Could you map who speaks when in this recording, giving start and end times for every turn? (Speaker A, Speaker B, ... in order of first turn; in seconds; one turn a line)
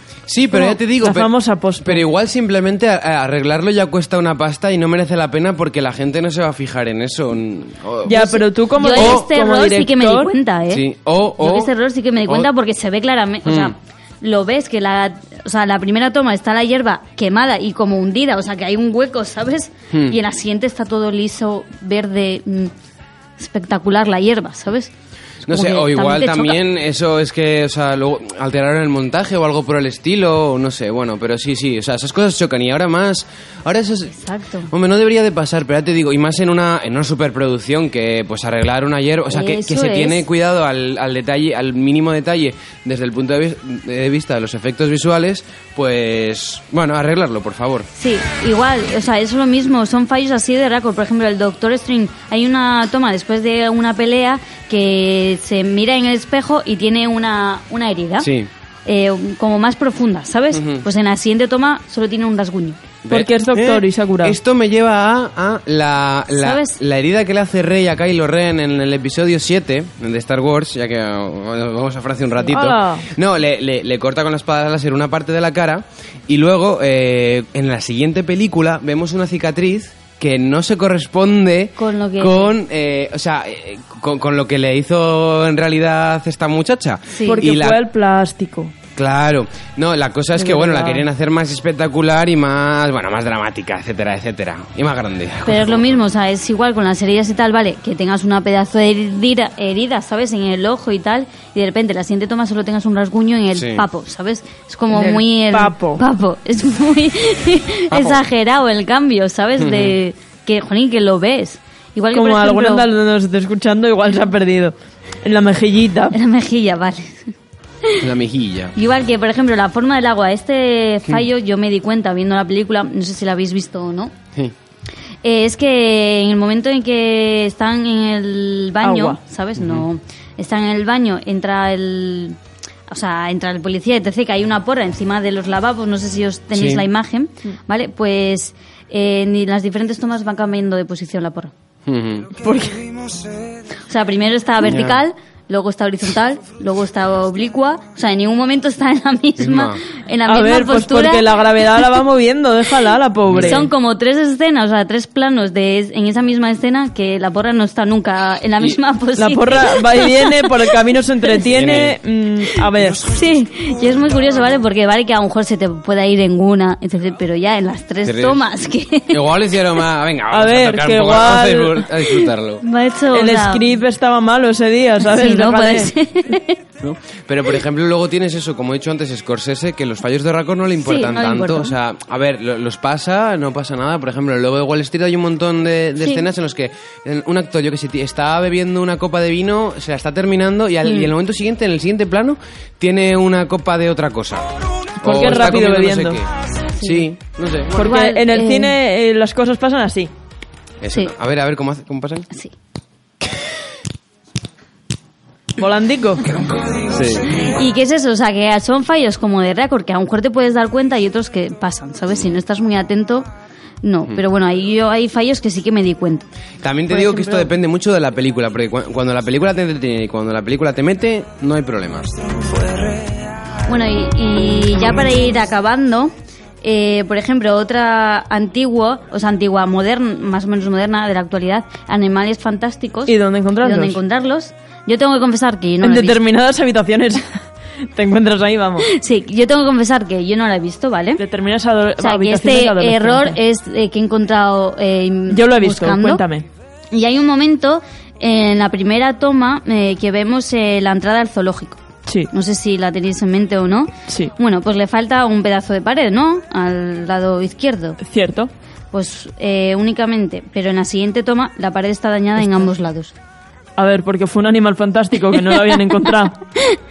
Speaker A: 0.3-8.2
Speaker B: 0.5-2.0
Speaker B: 8.0-10.3
Speaker C: 8.1-10.9
Speaker A: 8.9-9.2
Speaker A: 10.7-11.7
Speaker C: 11.4-22.7
Speaker A: 13.4-13.7
Speaker A: 19.9-20.2
Speaker C: 23.4-24.9
Speaker C: 25.4-26.6
Speaker A: 25.4-34.2
Speaker C: 34.1-34.7
Speaker A: 34.7-47.9
Speaker C: 39.3-40.2
Speaker C: 47.9-58.3
Speaker A: 58.2-58.5
Speaker C: 58.9-62.8
Speaker A: 60.5-60.9
Speaker A: 63.0-87.8
Speaker B: 63.1-64.3
Speaker C: 66.3-66.8
Speaker B: 72.5-73.1
Speaker C: 81.8-82.5
Speaker C: 87.1-87.4
Speaker B: 87.3-88.7
Speaker A: 89.0-96.0
Speaker B: 90.4-91.0
Speaker C: 95.4-112.8
Speaker A: 103.5-103.8
Speaker B: 104.9-106.0
Speaker A: 107.9-108.2
Speaker A: 109.6-110.0
Speaker B: 112.1-116.1
Speaker C: 116.1-117.3
Speaker A: 118.0-118.7
Speaker C: 118.8-124.1
Speaker C: 125.2-132.4
Speaker B: 128.8-129.2
Speaker A: 129.6-129.8
Speaker C: 132.9-141.5
Speaker A: 136.5-136.8
Speaker A: 141.9-142.3
Speaker B: 142.4-142.8
Speaker C: 143.9-151.2
Speaker A: 144.6-145.0
Speaker A: 149.4-149.8
Speaker B: 150.3-153.7
Speaker A: 153.3-153.7
Speaker C: 153.4-160.5
Speaker B: 159.2-163.0
Speaker A: 161.5-162.0
Speaker C: 163.1-169.2
Speaker A: 168.0-168.4
Speaker A: 169.1-172.6
Speaker B: 170.3-171.9
Speaker C: 172.6-173.7
Speaker B: 173.1-175.9
Speaker C: 175.1-176.6
Speaker A: 176.8-197.8
Speaker C: 180.8-181.7
Speaker B: 195.0-196.2
Speaker C: 196.8-197.1
Speaker B: 197.7-200.1
Speaker C: 197.8-198.7
Speaker A: 200.8-202.3
Speaker B: 205.6-206.2
Speaker A: 206.4-207.3
Speaker C: 207.3-213.3
Speaker C: 213.8-216.3
Speaker A: 216.6-222.1
Speaker C: 216.9-217.5
Speaker C: 223.7-236.2
Speaker B: 233.1-234.0
Speaker B: 235.8-238.9
Speaker C: 238.9-241.2
Speaker B: 241.2-243.4
Speaker C: 242.0-246.2
Speaker B: 245.3-246.4
Speaker C: 246.9-258.0
Speaker B: 254.1-254.3
Speaker B: 258.0-258.5
Speaker C: 258.9-263.1
Speaker B: 263.8-266.4